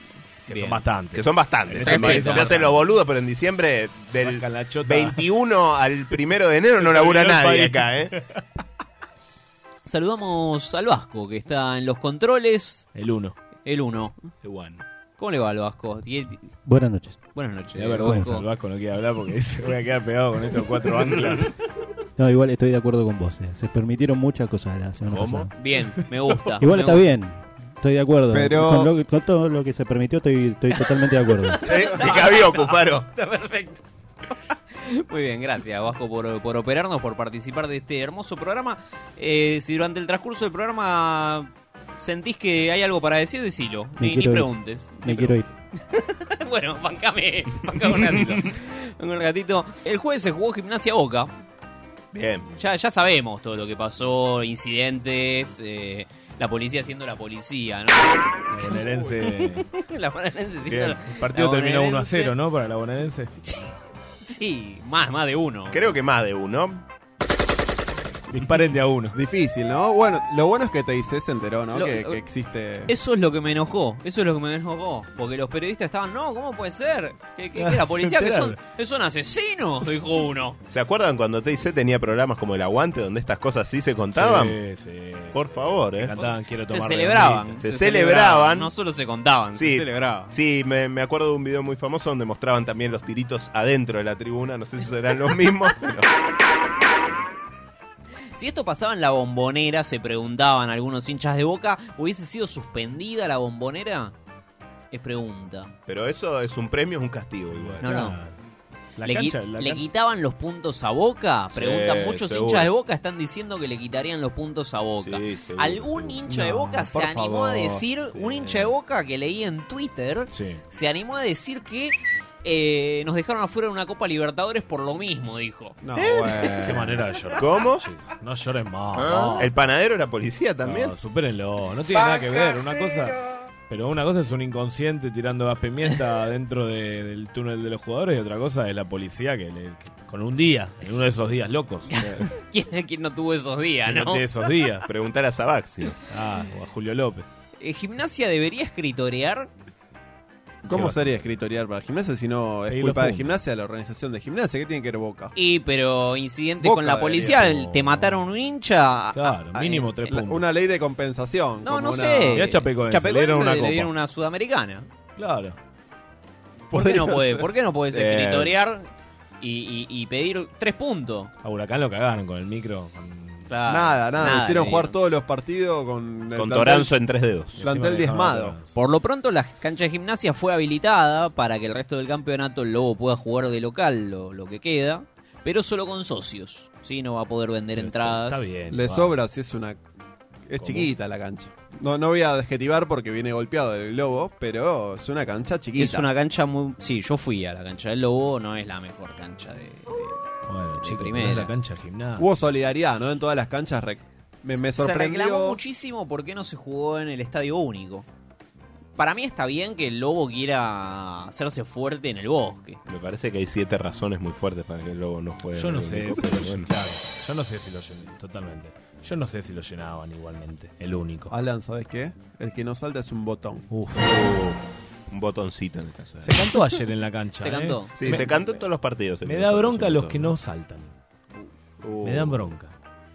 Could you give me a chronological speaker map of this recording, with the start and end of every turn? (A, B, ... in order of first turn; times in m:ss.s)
0:00.5-0:02.8 A
0:01.1-0:08.1 B
0:01.8-0:02.5 C
0:04.2-0:05.2 A
0:06.8-0:07.9 A
0:09.8-0:12.9 C
0:12.9-0:13.3 A
0:13.6-0:14.2 C
0:14.4-0:14.8 B
0:15.2-0:16.5 C
0:16.6-0:17.3 D
0:17.3-0:18.4 C
0:17.8-0:21.5 A
0:22.2-0:25.5 D
0:25.1-0:25.5 B
0:25.6-0:27.1 C
0:26.6-0:31.6 D
0:28.3-0:28.9 E
0:31.4-0:33.8 C
0:31.6-0:33.0 B
0:34.8-0:45.4 C
0:44.0-0:45.5 D
0:45.9-0:51.3 C
0:52.1-0:52.5 B
0:52.6-1:02.3 C
0:58.5-0:59.7 A
1:00.7-1:01.0 B
1:01.1-1:03.3 A
1:03.4-1:03.7 C
1:04.2-1:06.0 C
1:05.7-1:06.8 B
1:08.3-1:09.2 A
1:09.1-1:12.9 E
1:11.7-1:12.2 C
1:12.9-1:20.6 C
1:17.6-1:18.6 A
1:20.7-1:24.6 B
1:24.1-1:27.6 A
1:25.3-1:26.1 B
1:26.2-1:30.3 C
1:27.6-1:28.7 B
1:29.5-1:36.1 B
1:38.3-1:44.1 C
1:44.9-1:45.7 C
1:45.9-1:47.8 B
1:47.6-1:48.3 A
1:47.8-1:48.2 C
1:49.0-1:49.8 A
1:49.0-2:05.8 C
1:51.5-1:52.7 B
1:55.0-1:56.2 B
1:56.3-1:57.8 E
1:58.2-1:58.7 A
2:00.3-2:00.6 A
2:05.8-2:07.0 E
2:06.6-2:09.5 A
2:07.4-2:07.9 B
2:08.9-2:10.9 B
2:10.6-2:13.2 A
2:13.7-2:22.2 A
2:21.9-2:24.2 C
2:23.8-2:24.9 A
2:24.8-2:26.0 B
2:26.1-2:27.2 A
2:27.6-2:29.5 C
2:30.6-2:35.3 E
2:30.6-2:31.2 A
2:32.7-2:33.4 A
2:35.4-2:39.9 C
2:36.6-2:37.4 E
2:37.2-2:38.3 A
2:39.1-2:40.5 A
2:40.1-2:42.4 E
2:41.6-2:44.9 C
2:42.3-2:43.9 A
2:45.2-2:45.6 A
2:46.7-2:48.9 C
2:46.7-2:47.2 E
2:47.9-2:48.6 B
2:49.4-2:51.3 C
2:51.4-2:53.5 A
2:53.5-2:55.0 C
2:53.7-2:56.9 E
2:56.4-2:57.6 B
2:57.6-2:58.6 E
2:57.6-2:58.7 A
2:58.7-3:08.5 C
3:07.8-3:09.2 A
3:08.7-3:09.8 E
3:10.5-3:16.1 E
3:15.8-3:20.2 C
3:20.5-3:22.3 A
3:20.8-3:21.5 C
3:22.2-3:25.6 E
3:24.5-3:28.1 C
3:29.0-3:32.8 C
3:32.9-3:36.7 B
3:35.5-3:41.3 A
3:41.3-3:43.7 E
3:43.7-3:44.1 A
3:44.0-3:46.3 B
3:46.2-3:48.6 A
3:47.4-3:48.4 C
3:48.0-3:50.3 B
3:49.2-3:50.9 A
3:51.8-3:52.5 B
3:52.0-3:52.7 A